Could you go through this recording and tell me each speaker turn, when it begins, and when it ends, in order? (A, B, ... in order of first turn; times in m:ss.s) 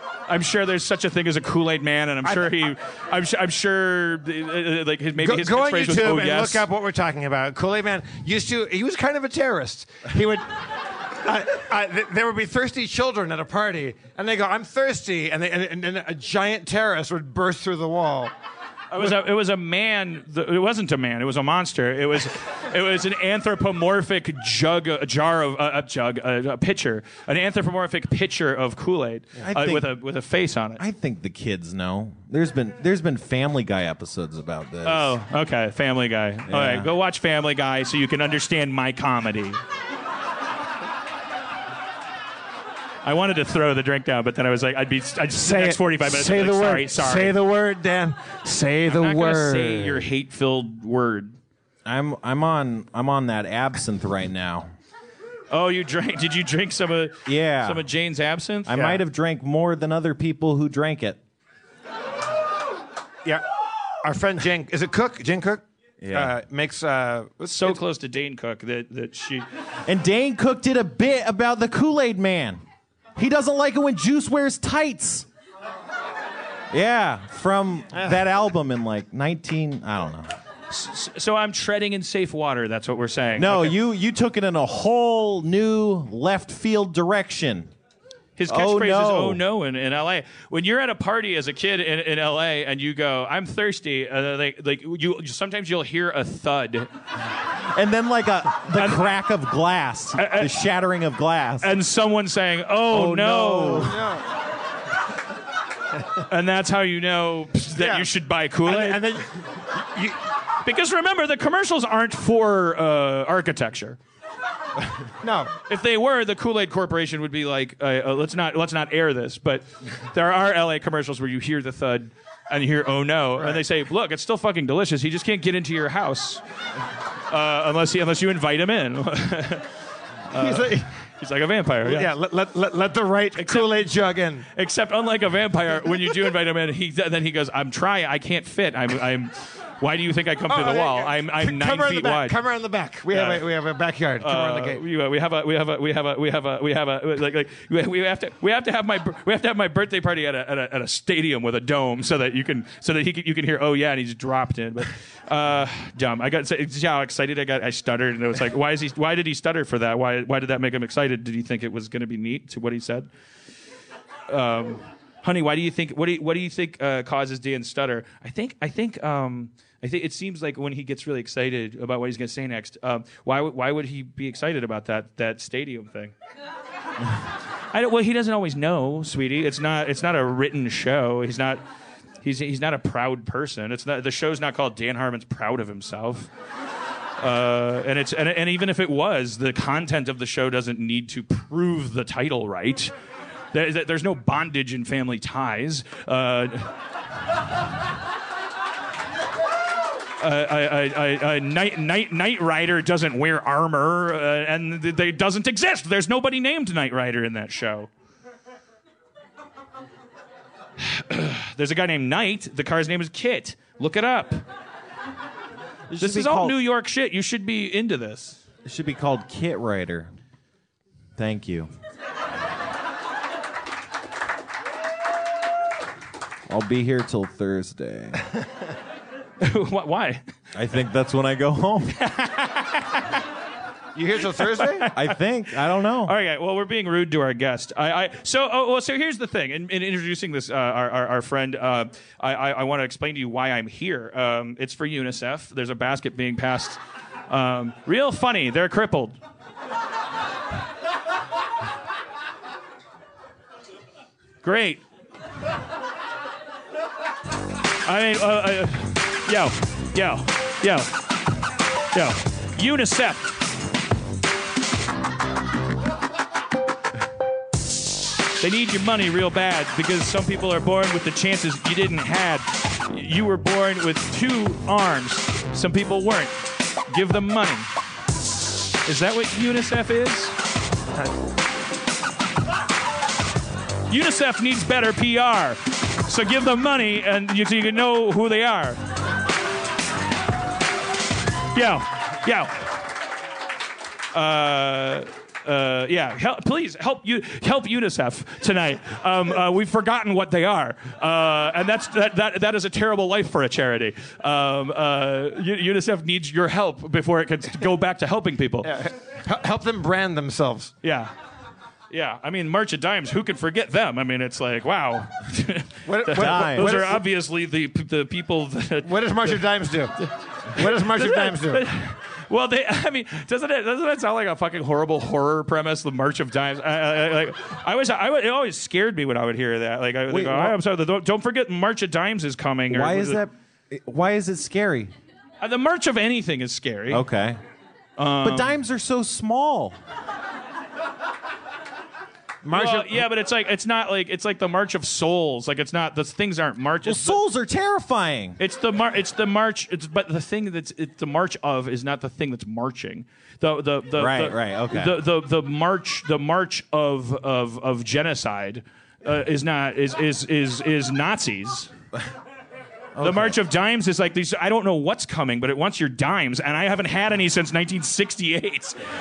0:00.3-0:06.6 A
0:02.2-0:02.5 B
0:05.2-0:18.3 B
0:18.9-0:30.8 A
0:29.4-0:29.9 C
0:30.8-0:35.2 C
0:34.8-0:39.6 A
0:36.5-0:36.9 C
0:43.0-0:47.4 A
0:45.4-0:50.0 B
0:48.9-0:51.4 A
0:51.8-0:54.7 C
0:55.5-0:59.0 A
0:57.2-0:57.8 C
0:58.6-1:01.2 C
1:04.0-1:07.8 B
1:06.0-1:06.3 C
1:07.4-1:09.4 A
1:09.8-1:12.6 C
1:13.2-1:15.3 C
1:16.7-1:20.3 C
1:17.9-1:18.2 B
1:20.7-1:23.8 A
1:23.4-1:27.7 C
1:28.4-1:36.9 A
1:28.5-1:29.4 C
1:37.6-1:41.7 C
1:38.7-1:39.1 A
1:40.1-1:40.6 A
1:41.6-1:44.0 A
1:42.9-1:44.0 C
1:43.8-1:44.3 B
1:46.2-1:49.0 A
1:47.8-1:48.1 B
1:48.6-1:50.2 B
1:50.6-1:54.0 A
1:55.2-1:55.6 B
1:55.7-2:06.4 A
2:03.4-2:03.6 B
2:07.3-2:09.7 A
2:10.3-2:12.1 A
2:10.3-2:10.9 B
2:11.8-2:14.5 B
2:13.4-2:13.8 A
2:14.5-2:22.4 A
2:20.5-2:24.8 B
2:23.1-2:23.4 A
2:24.2-2:43.1 A
2:44.3-2:56.1 A
2:57.7-3:01.6 A
3:02.2-3:06.3 A
3:07.2-3:12.9 A
3:13.5-3:16.7 A
3:20.2-3:27.9 A
3:30.8-3:34.4 A
3:35.9-3:36.5 C
3:36.0-3:38.4 A
3:38.6-3:40.1 C
3:41.2-3:41.7 C
3:46.5-3:48.3 C
3:49.4-3:50.2 A
3:50.5-3:52.0 C
3:51.9-3:53.2 A
3:53.9-3:54.9 B
3:54.4-4:09.2 A
3:54.9-3:56.1 C
4:14.4-4:14.8 A
4:17.8-4:21.0 A
4:21.9-4:23.4 A
4:28.4-4:37.7 A
4:38.8-4:40.4 A
4:43.9-4:48.8 A
4:51.5-4:52.8 A
4:54.1-5:08.7 A
5:08.6-5:10.7 B
5:10.8-5:11.1 A
5:11.9-5:19.4 A
5:15.8-5:17.0 B
5:16.2-5:16.9 C
5:18.8-5:19.9 B
5:20.5-5:21.7 B
5:20.5-5:33.2 A
5:30.1-5:30.5 C
5:32.7-5:34.9 C
5:35.4-5:37.0 A
5:36.9-5:37.4 C
5:38.0-5:38.6 A
5:38.2-5:39.8 C
5:42.4-5:43.0 B
5:42.5-5:47.2 A
5:46.8-5:48.4 C
5:48.4-6:01.7 A
5:54.0-5:55.0 C
6:03.0-6:03.3 C
6:03.0-6:08.8 A